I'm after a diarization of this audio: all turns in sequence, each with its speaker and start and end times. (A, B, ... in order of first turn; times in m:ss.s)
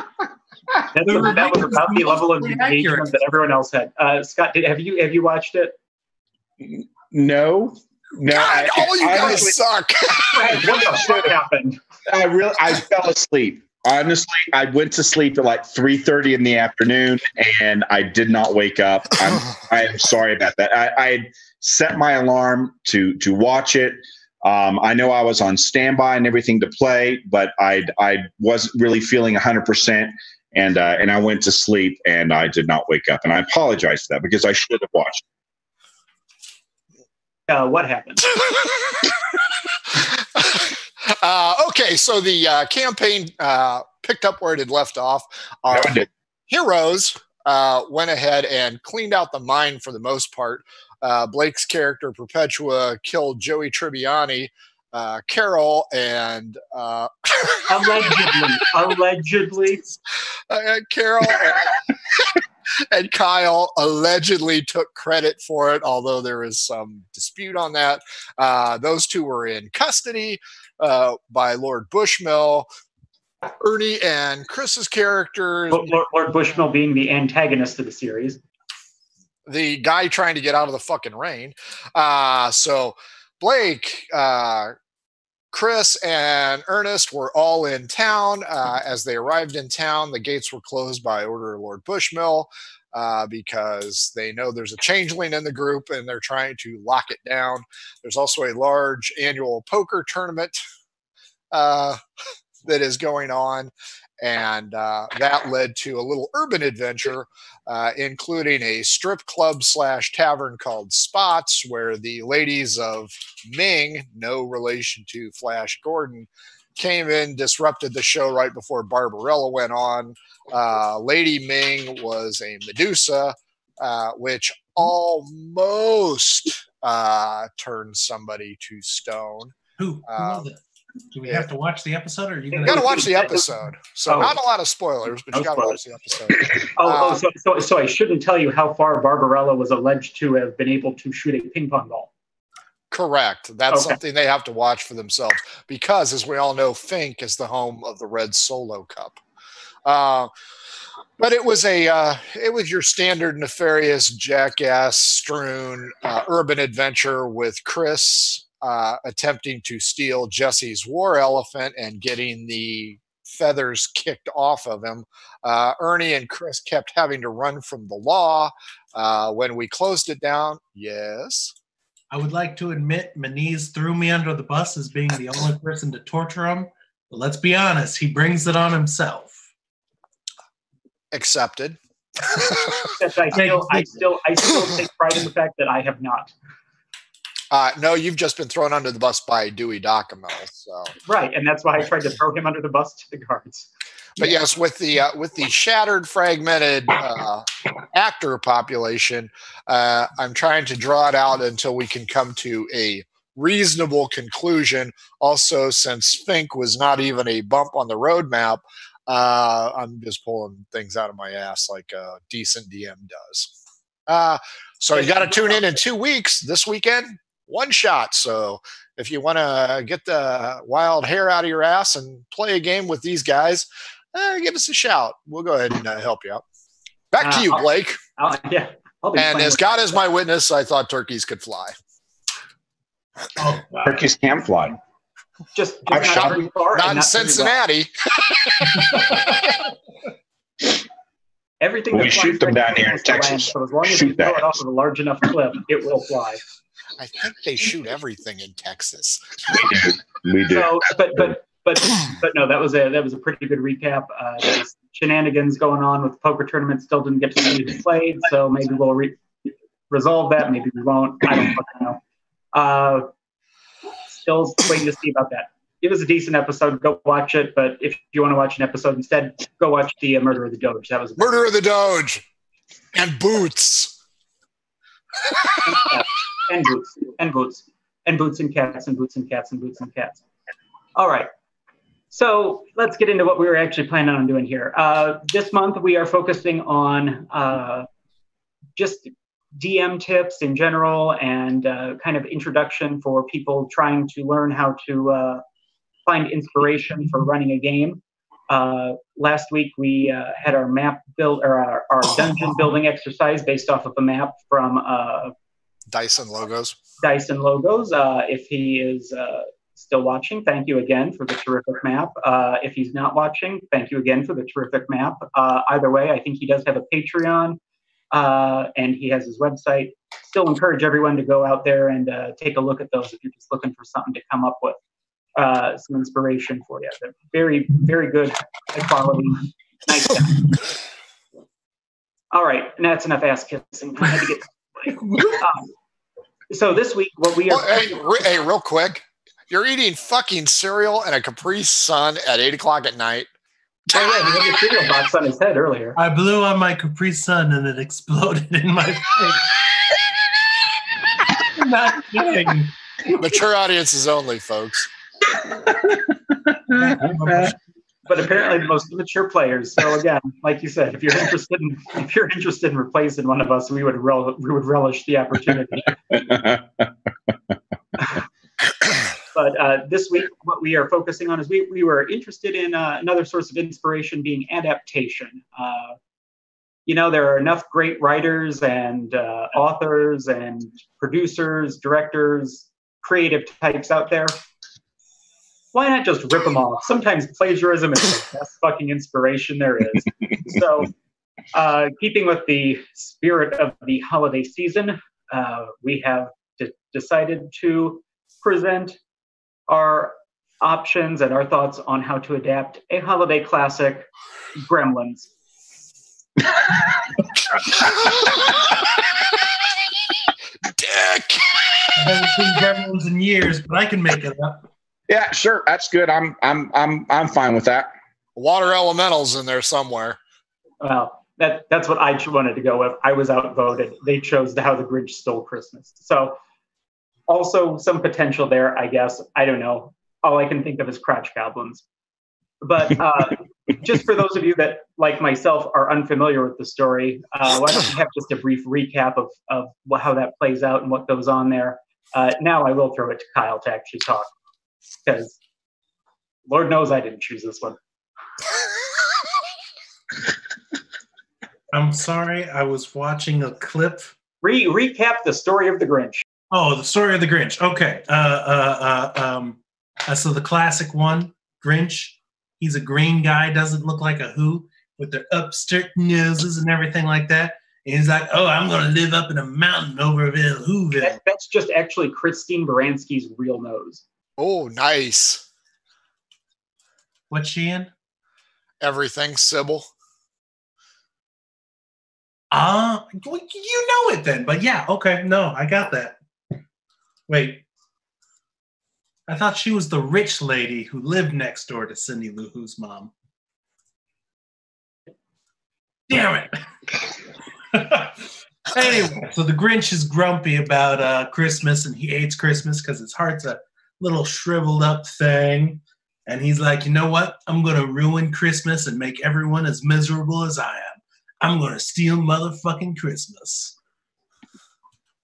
0:00.9-0:05.8 A
0:01.0-0:03.1 B
0:06.6-0:09.6 C
0:08.3-0:10.8 D
0:10.3-0:11.8 A
0:10.7-0:11.3 C
0:12.1-0:35.2 C
0:37.5-0:38.3 A
0:38.6-0:39.0 D
0:39.9-0:58.2 D
0:45.7-0:46.1 C
0:57.7-0:59.8 A
1:00.5-1:02.4 D
1:02.9-1:12.7 D
1:13.6-1:15.9 D
1:15.7-1:18.4 A
1:19.5-1:24.8 D
1:25.5-1:40.6 D
1:41.5-1:42.0 D
1:42.6-2:09.5 D
2:09.8-2:10.6 B
2:10.1-2:10.5 D
2:11.1-2:13.1 B
2:12.5-2:13.5 A
2:12.6-2:17.2 D
2:14.1-2:14.4 A
2:15.3-2:15.8 A
2:16.8-2:22.1 A
2:22.9-2:29.2 D
2:23.7-2:24.0 A
2:29.8-2:30.3 D
2:31.2-2:51.5 D
2:52.1-2:59.4 B
3:01.1-3:02.9 D
3:03.0-3:06.3 A
3:03.4-3:03.9 B
3:07.5-3:10.9 D
3:11.1-3:13.7 A
3:14.2-3:33.5 D
3:34.1-3:46.4 D
3:34.9-3:35.7 A
3:47.1-3:48.0 D
3:47.2-3:47.7 A
3:48.2-3:50.0 A
3:49.2-3:51.8 D
3:53.4-3:54.0 B
3:53.8-3:54.8 C
3:55.6-3:57.6 A
3:55.9-3:56.4 C
3:56.2-3:58.9 D
4:01.6-4:06.4 A
4:01.9-4:04.5 C
4:07.0-4:09.2 D
4:09.5-4:10.7 C
4:10.5-4:19.2 A
4:19.9-4:22.0 A
4:22.5-4:23.1 A
4:24.1-4:31.5 A
4:31.2-4:32.2 D
4:32.9-4:33.9 D
4:35.6-4:40.2 A
4:41.0-4:41.3 A
4:42.1-4:47.9 A
4:48.8-4:55.4 A
4:56.1-5:05.3 A
5:05.9-5:06.8 D
5:07.0-5:17.6 A
5:18.1-5:24.8 A
5:25.4-5:30.5 A
5:32.3-5:35.7 A
5:36.5-5:38.0 A
5:37.5-5:43.3 D
5:43.9-5:46.0 A
5:46.0-5:49.5 B
5:51.6-5:52.7 B
5:53.2-5:54.9 D
5:55.5-5:56.6 C
5:56.7-5:57.6 B
5:57.3-5:57.5 C
5:58.1-6:06.0 A
6:06.1-6:06.9 C
6:08.0-6:08.2 A
6:09.3-6:16.0 A
6:16.9-6:24.4 A
6:25.7-6:30.9 A
6:31.5-6:39.0 A
6:39.7-6:44.1 A
6:44.6-6:45.3 A
6:50.7-6:51.9 D
6:52.0-6:54.7 B
6:55.1-6:57.9 C
6:58.4-7:00.2 D
7:00.8-7:06.4 A
7:07.3-7:11.8 A
7:12.6-7:24.3 A
7:25.0-7:25.4 A
7:26.5-7:27.8 A
7:31.7-7:34.1 B
7:34.4-7:36.2 A
7:36.5-7:51.2 B
7:51.0-7:54.0 A
7:54.4-7:55.4 D
7:57.3-7:57.9 B
7:58.8-7:59.9 D
8:02.5-8:06.2 B
8:07.3-8:07.6 B
8:09.3-8:13.1 B
8:16.1-8:16.5 B
8:17.7-8:18.2 B
8:18.7-8:33.8 B